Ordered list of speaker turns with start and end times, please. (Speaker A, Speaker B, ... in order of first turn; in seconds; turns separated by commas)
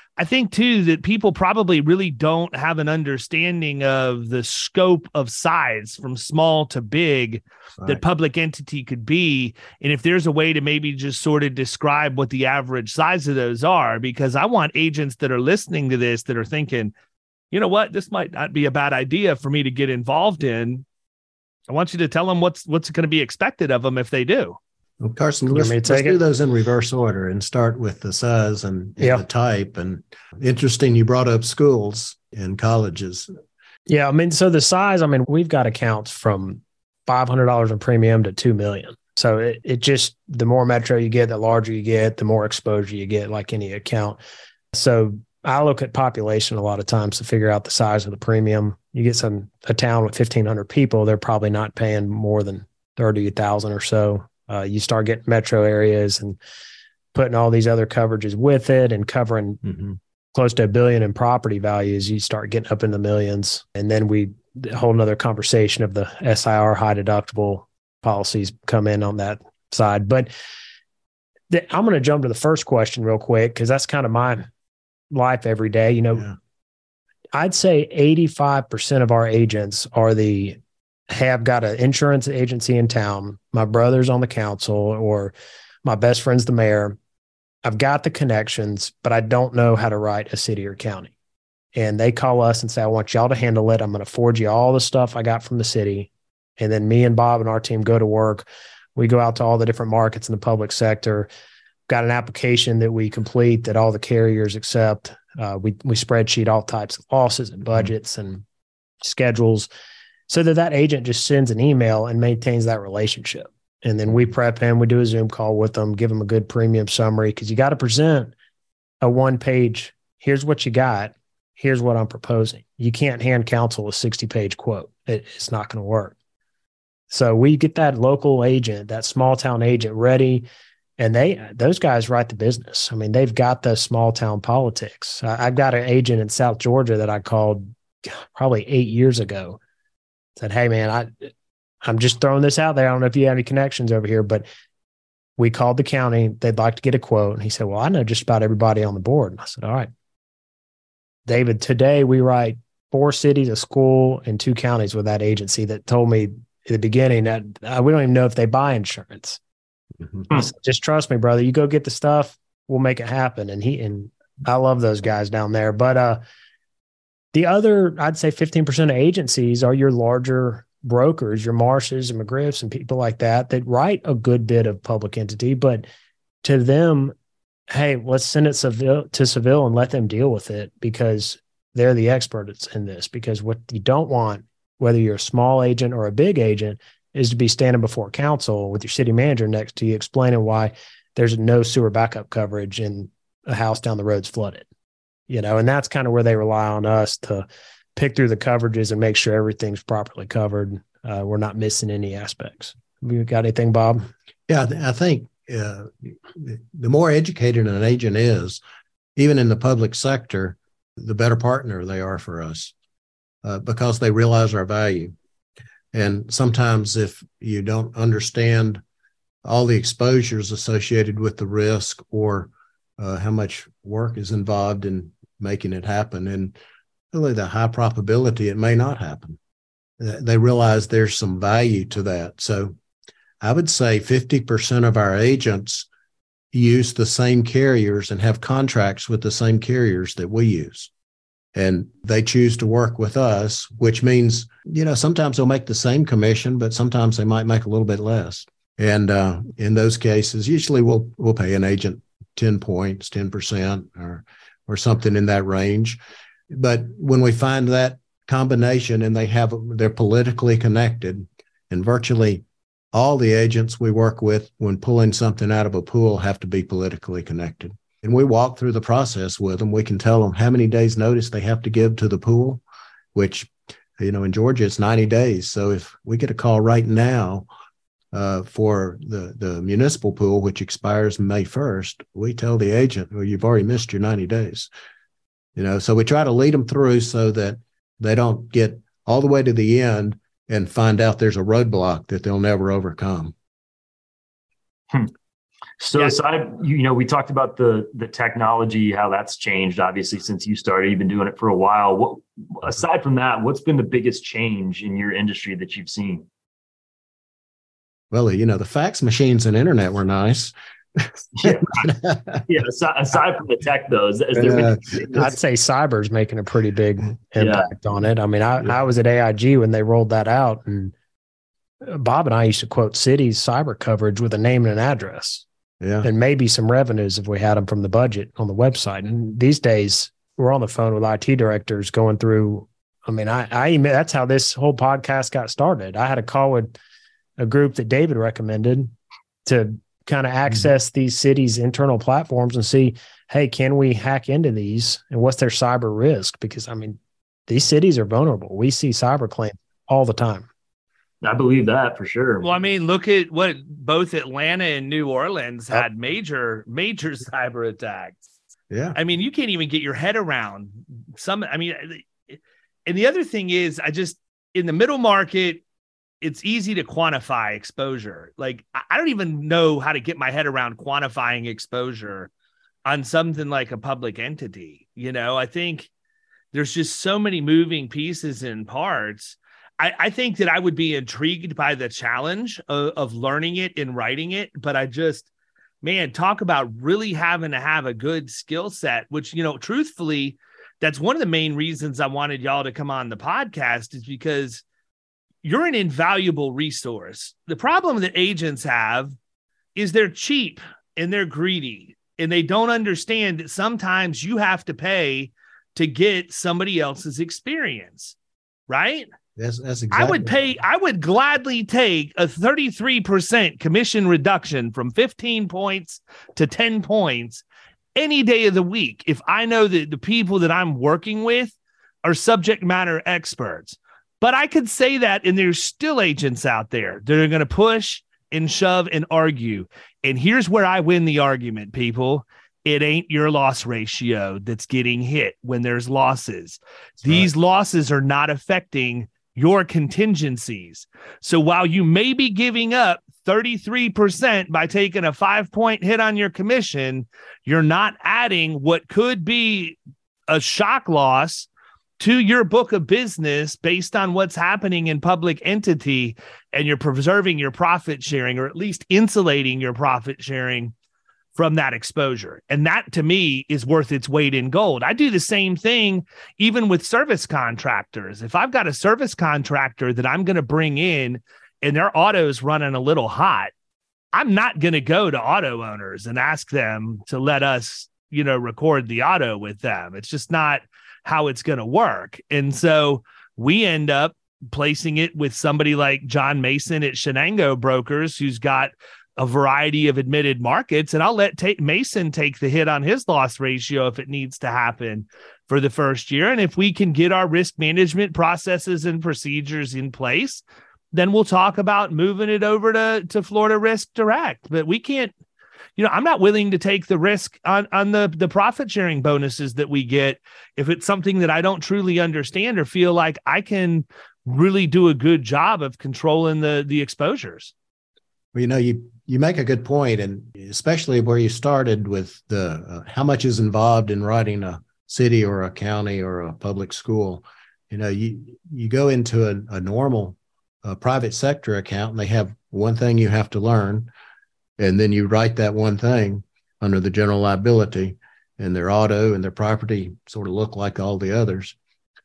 Speaker A: 0.2-16.9, Speaker A: 17.5-20.8, Speaker A: 21.7-24.6, Speaker B: 25.0-33.3, Speaker C: 25.5-26.2, Speaker C: 33.9-44.2, Speaker C: 44.7-56.4, Speaker C: 57.1-59.6, Speaker B: 59.6-60.0, Speaker C: 60.3-70.3, Speaker C: 71.5-74.5, Speaker C: 75.1-76.3, Speaker C: 77.3-80.6, Speaker C: 81.1-85.3, Speaker C: 85.8-87.0, Speaker C: 87.6-91.1, Speaker C: 91.7-101.3, Speaker C: 101.9-108.4, Speaker C: 109.0-109.7, Speaker C: 110.3-118.3, Speaker C: 119.0-126.1, Speaker C: 127.1-130.4, Speaker C: 131.0-139.6, Speaker C: 140.4-141.3, Speaker C: 141.8-144.4, Speaker C: 145.4-149.9, Speaker C: 151.3-159.4, Speaker C: 160.3-166.2, Speaker C: 167.3-175.8, Speaker C: 176.4-177.1, Speaker C: 177.7-194.7, Speaker C: 195.3-204.1, Speaker B: 204.5-208.6, Speaker B: 209.2-212.7, Speaker B: 213.4-215.1, Speaker B: 215.9-218.8, Speaker B: 219.4-226.5, Speaker B: 227.1-229.4, Speaker B: 230.0-232.7, Speaker B: 233.4-235.9, Speaker B: 236.5-240.9, Speaker B: 241.5-256.0, Speaker B: 256.5-272.6, Speaker B: 273.1-277.4, Speaker B: 278.1-284.7, Speaker B: 285.6-293.3, Speaker D: 295.8-306.2, Speaker B: 308.1-312.4, Speaker D: 311.4-311.9, Speaker D: 312.5-315.0, Speaker B: 314.3-315.3, Speaker C: 315.1-320.9, Speaker D: 317.4-317.7, Speaker C: 321.8-325.4, Speaker B: 325.8-326.1, Speaker C: 326.0-336.7, Speaker C: 337.4-338.9, Speaker C: 339.4-350.5, Speaker D: 351.2-352.5, Speaker A: 352.4-358.2, Speaker B: 358.7-359.0, Speaker A: 358.9-365.6, Speaker A: 366.2-372.3, Speaker A: 372.9-375.9, Speaker A: 376.5-385.3, Speaker A: 385.8-394.6, Speaker A: 395.4-399.1, Speaker A: 399.8-408.1, Speaker A: 408.7-409.1, Speaker B: 409.4-410.4, Speaker A: 409.9-417.4, Speaker A: 417.9-449.8, Speaker B: 437.0-437.3, Speaker A: 450.3-451.5, Speaker A: 452.0-460.7, Speaker A: 461.3-473.5, Speaker A: 474.1-505.1, Speaker A: 505.8-517.5, Speaker B: 518.3-533.9, Speaker B: 534.6-541.5